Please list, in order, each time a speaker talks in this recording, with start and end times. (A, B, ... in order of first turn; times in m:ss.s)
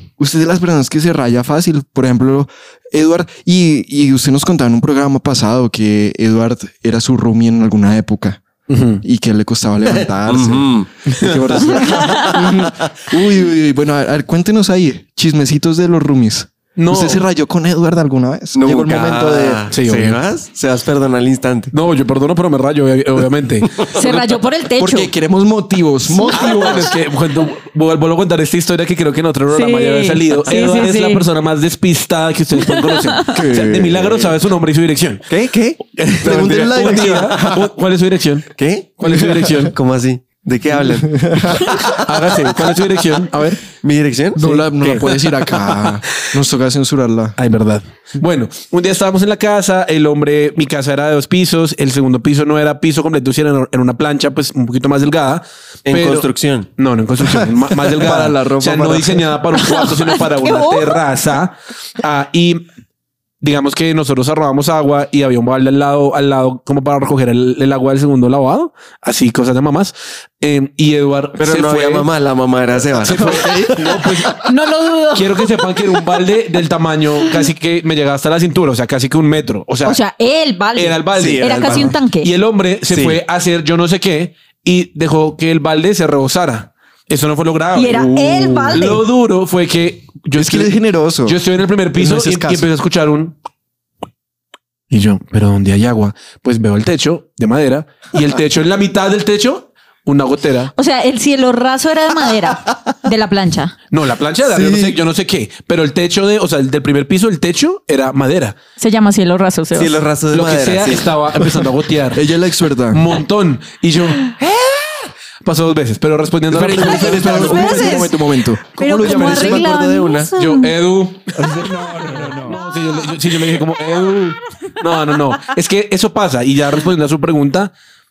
0:00.2-0:08.4 A
0:08.7-0:09.0 B
0:09.0-0:19.6 A
0:09.9-0:10.9 C
0:11.2-0:11.6 B
0:12.0-0:12.3 D
0:16.8-0:17.2 B
0:18.5-0:21.7 C
0:19.7-0:20.2 B
0:21.7-0:23.8 B
0:23.9-0:25.1 D
0:24.8-0:26.9 A
0:26.0-0:35.2 B
0:29.5-0:31.2 D
0:32.7-0:33.3 D
0:33.3-0:34.3 A
0:35.3-0:37.5 C
0:36.0-0:39.7 B
0:36.2-0:37.7 A
0:38.6-0:42.5 C
0:39.1-0:39.5 A
0:40.9-0:41.7 A
0:42.0-0:43.6 B
0:43.8-0:44.4 C
0:44.4-0:47.4 A
0:44.4-0:45.9 B
0:47.4-1:02.6 B
0:55.9-0:56.7 C
0:57.9-0:59.3 A
0:59.6-1:01.0 D
1:03.4-1:12.1 B
1:11.4-1:14.1 C
1:13.0-1:14.5 B
1:14.4-1:15.5 D
1:15.1-1:20.0 B
1:19.8-1:22.3 D
1:20.7-1:33.3 B
1:21.2-1:21.9 C
1:22.9-1:23.2 C
1:27.7-1:29.0 D
1:30.3-1:31.4 A
1:32.0-1:32.6 A
1:34.9-1:40.7 B
1:40.8-1:43.7 D
1:43.9-1:48.6 B
1:44.5-1:45.0 A
1:48.8-1:50.0 D
1:49.7-1:51.1 C
1:50.3-1:52.2 B
1:52.1-1:53.2 A
1:52.9-1:54.4 B
1:55.4-1:57.9 B
1:56.5-1:59.7 A
1:56.8-1:58.2 D
1:58.7-2:00.7 D
1:58.9-2:00.3 C
2:00.4-2:07.7 B
2:01.4-2:02.6 A
2:02.6-2:03.0 D